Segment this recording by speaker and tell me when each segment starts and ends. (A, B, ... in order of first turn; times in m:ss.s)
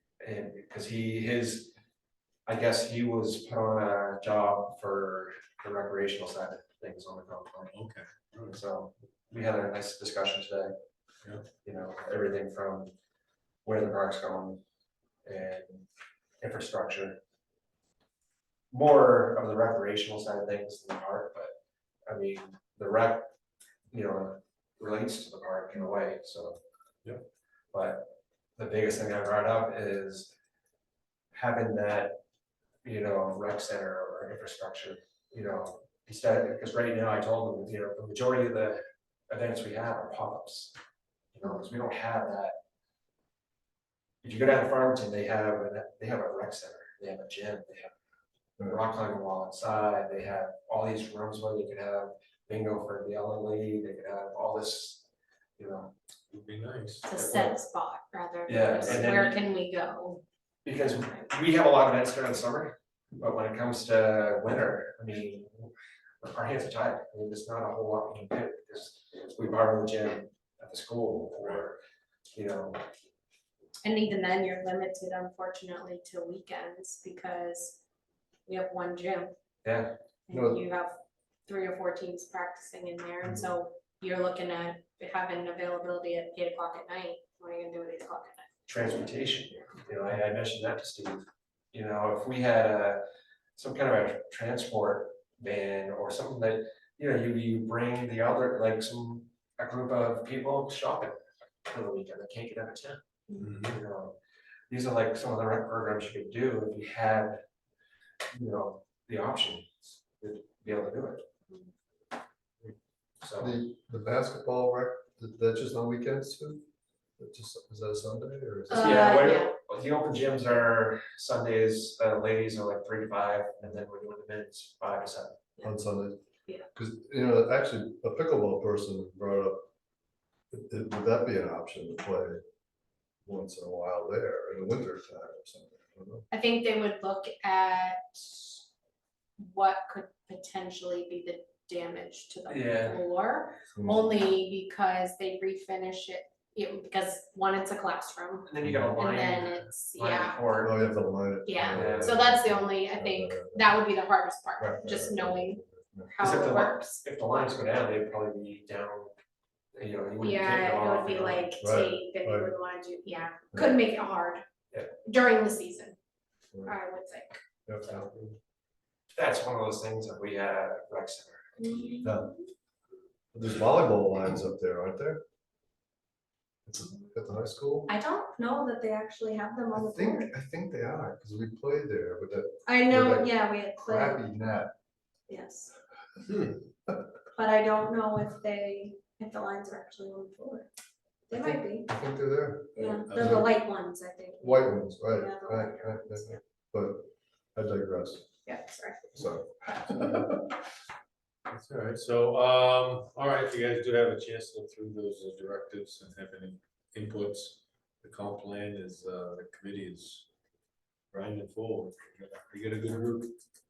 0:00.2-0:01.7 A
0:02.5-0:07.7 A
0:07.7-0:08.6 B
0:08.5-0:10.7 A
0:11.6-0:12.9 A
0:13.6-0:14.6 A
0:15.2-0:15.8 A
0:16.4-0:17.2 A
0:18.7-0:21.5 A
0:22.1-0:23.3 A
0:23.9-0:26.6 A
0:27.7-0:30.3 A
0:31.3-0:32.2 A
0:32.8-0:40.7 A
0:41.3-0:42.6 A
0:44.2-0:47.9 A
0:48.6-0:55.0 A
0:55.6-0:55.9 A
0:56.3-0:57.1 B
0:57.0-1:00.2 C
0:57.1-0:57.6 A
0:58.4-0:59.4 A
1:00.6-1:11.8 A
1:12.3-1:12.8 A
1:13.8-1:17.8 C
1:18.4-1:19.3 C
1:19.6-1:19.9 A
1:20.3-1:28.5 C
1:20.3-1:20.6 D
1:28.7-1:33.0 A
1:33.6-1:44.2 A
1:43.4-1:43.8 B
1:44.7-1:47.4 A
1:48.3-1:51.2 A
1:53.2-1:53.6 A
1:53.4-1:56.6 D
1:57.2-1:59.2 D
1:58.7-1:59.5 C
1:58.7-2:05.4 A
2:05.6-2:06.2 D
2:06.7-2:09.7 D
2:10.5-2:12.4 D
2:13.2-2:16.2 D
2:16.3-2:18.7 C
2:19.4-2:30.4 C
2:22.5-2:23.0 A
2:23.7-2:24.1 D
2:28.4-2:30.7 A
2:28.6-2:28.9 D
2:30.6-2:33.8 D
2:31.4-2:37.0 C
2:31.6-2:32.4 A
2:34.6-2:36.1 D
2:36.2-2:39.1 A
2:39.7-2:41.5 A
2:40.2-2:44.4 C
2:41.6-2:42.5 D
2:43.5-2:43.8 D
2:45.0-2:46.0 C
2:46.6-2:47.4 C
2:47.6-2:48.4 D
2:49.1-2:51.9 A
2:51.6-2:52.5 C
2:52.0-2:52.3 D
2:53.3-2:55.2 D
2:56.6-2:57.9 D
2:57.9-3:00.3 C
2:59.7-3:04.7 D
3:02.6-3:04.2 C
3:05.3-3:05.7 C
3:06.2-3:06.6 B
3:07.4-3:10.7 C
3:11.3-3:11.9 C
3:11.3-3:13.5 D
3:12.7-3:16.4 C
3:13.0-3:13.5 B
3:14.4-3:18.2 D
3:18.4-3:19.8 C
3:19.1-3:20.5 D
3:21.5-3:30.2 B
3:31.1-3:33.3 B